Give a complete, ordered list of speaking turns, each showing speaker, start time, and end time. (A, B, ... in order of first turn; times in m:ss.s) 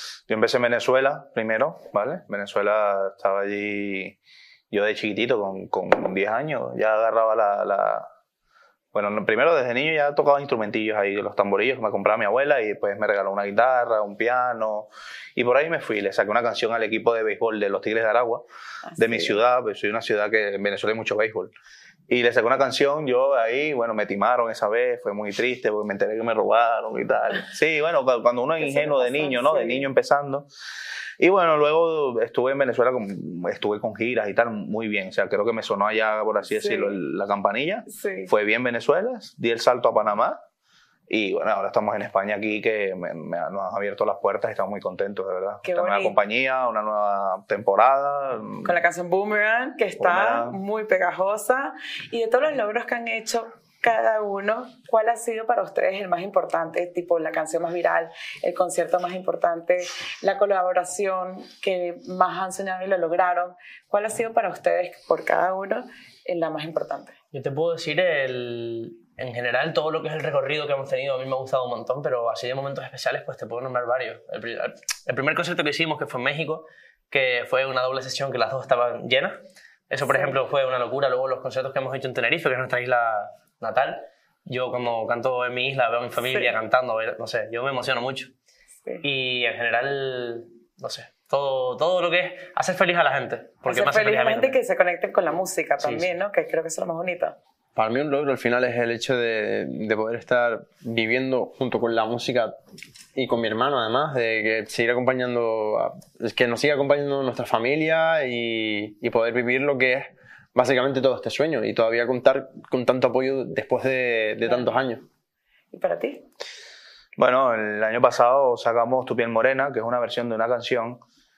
0:00.3-0:04.2 A
0:04.7-0:08.1 A
0:08.9-0:18.4 A
0:18.9-0:19.4 B
0:19.0-0:21.5 A
0:22.1-0:30.5 A
0:28.6-0:29.9 B
0:31.2-0:40.4 A
0:36.5-0:37.0 B
0:37.9-0:38.3 B
0:41.1-0:48.7 A
0:45.6-0:46.2 B
0:48.6-1:07.1 B
0:50.0-0:50.6 A
1:07.3-1:19.4 C
1:19.9-1:28.3 C
1:26.2-1:26.5 B
1:29.0-1:34.6 C
1:33.6-1:37.4 B
1:35.8-1:36.1 C
1:37.8-1:42.5 D
1:43.1-1:55.0 D
1:54.4-1:54.7 B
1:55.7-1:56.2 B
1:57.2-2:01.0 A